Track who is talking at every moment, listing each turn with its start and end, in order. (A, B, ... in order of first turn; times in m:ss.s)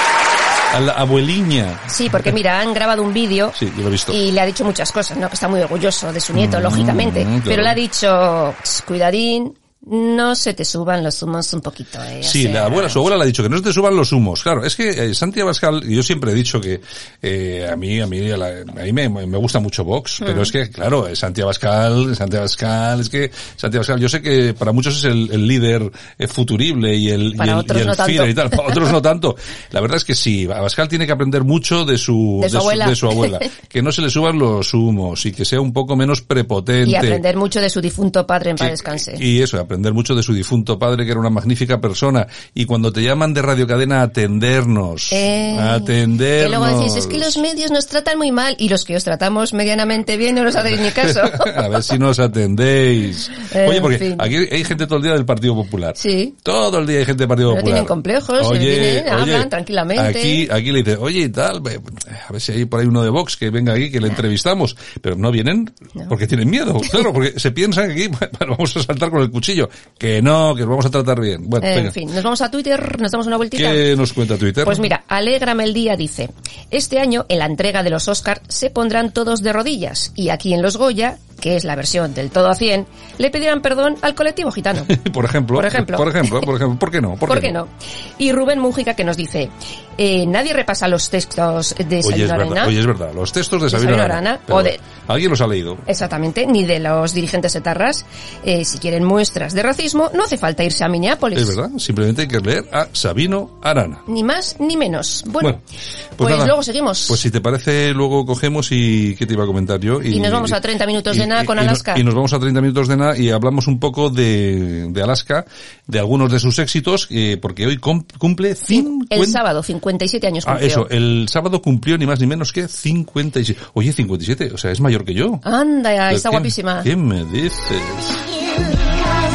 0:00.7-0:02.2 A
0:01.9-0:13.0 B
0:03.6-0:04.2 A
0:06.3-0:07.8 A
0:12.2-0:37.2 A
0:20.2-0:20.5 B
0:27.4-0:28.8 B
0:32.4-0:33.5 B
0:36.8-0:39.2 B
0:38.6-0:47.4 A
0:45.1-0:51.7 B
0:50.8-1:12.0 A
0:53.5-0:54.3 B
0:56.0-0:56.4 B
0:57.5-1:00.5 B
1:11.6-1:13.9 B
1:13.6-1:14.9 A
1:14.6-1:24.9 B
1:24.9-1:27.6 A
1:25.5-1:26.5 B
1:27.3-1:32.8 B
1:32.0-1:35.8 A
1:33.7-1:34.8 B
1:35.9-1:41.6 B
1:41.4-1:44.0 A
1:44.1-1:45.6 B
1:46.2-1:50.6 A
1:46.2-1:47.2 B
1:50.1-1:52.0 B
1:51.1-1:59.4 A
1:58.7-2:00.9 B
2:00.4-2:05.4 A
2:05.4-2:06.9 B
2:06.1-2:08.2 A